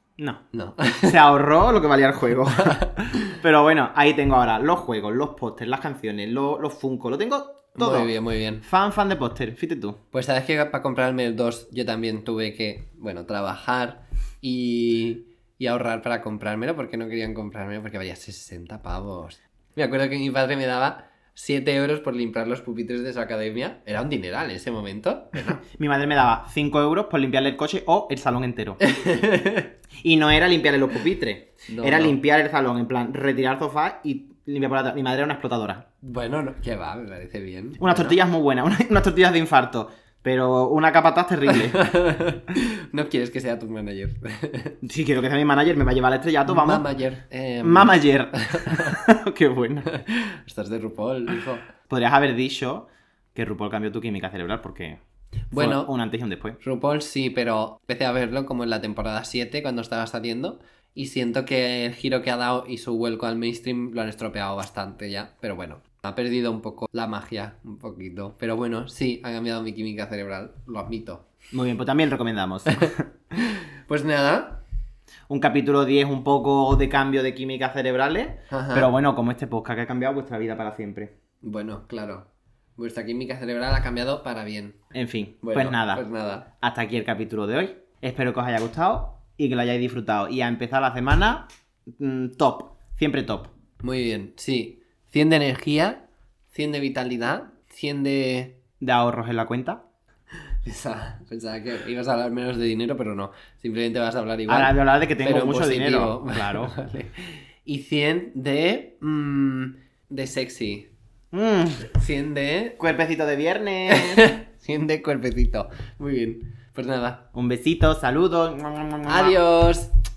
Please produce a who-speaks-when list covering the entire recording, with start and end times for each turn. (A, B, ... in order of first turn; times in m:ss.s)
0:00.2-0:00.4 A
0:00.5-0:01.2 B
0:01.0-0:10.0 A
0:02.6-0:03.4 B
0:07.8-0:08.6 B
0:10.1-0:25.6 B
0:25.6-0:28.8 A
0:28.8-0:29.7 B
0:30.0-0:35.8 A
0:31.7-0:32.2 B
0:36.0-0:38.2 B
0:37.8-0:41.8 A
0:41.6-0:44.8 B
0:44.8-0:46.8 A
0:46.5-0:49.0 B
0:47.6-0:49.9 A
0:49.9-0:51.7 B
0:51.9-0:55.0 A
0:55.5-0:55.9 B
0:55.5-0:56.6 A
0:56.6-1:11.2 B
1:11.5-1:13.0 A
1:12.7-1:14.6 B
1:15.3-1:21.1 A
1:18.5-1:18.9 B
1:21.4-1:24.8 B
1:24.9-1:26.0 A
1:25.4-1:26.5 B
1:26.6-1:33.5 A
1:33.8-1:38.5 B
1:38.8-1:39.8 A
1:40.6-1:50.9 B
1:44.5-1:46.7 A
1:51.3-1:51.9 A
1:51.9-1:52.8 B
1:52.8-1:54.3 A
1:53.9-1:57.2 B
1:57.3-1:59.4 A
1:59.0-1:59.9 B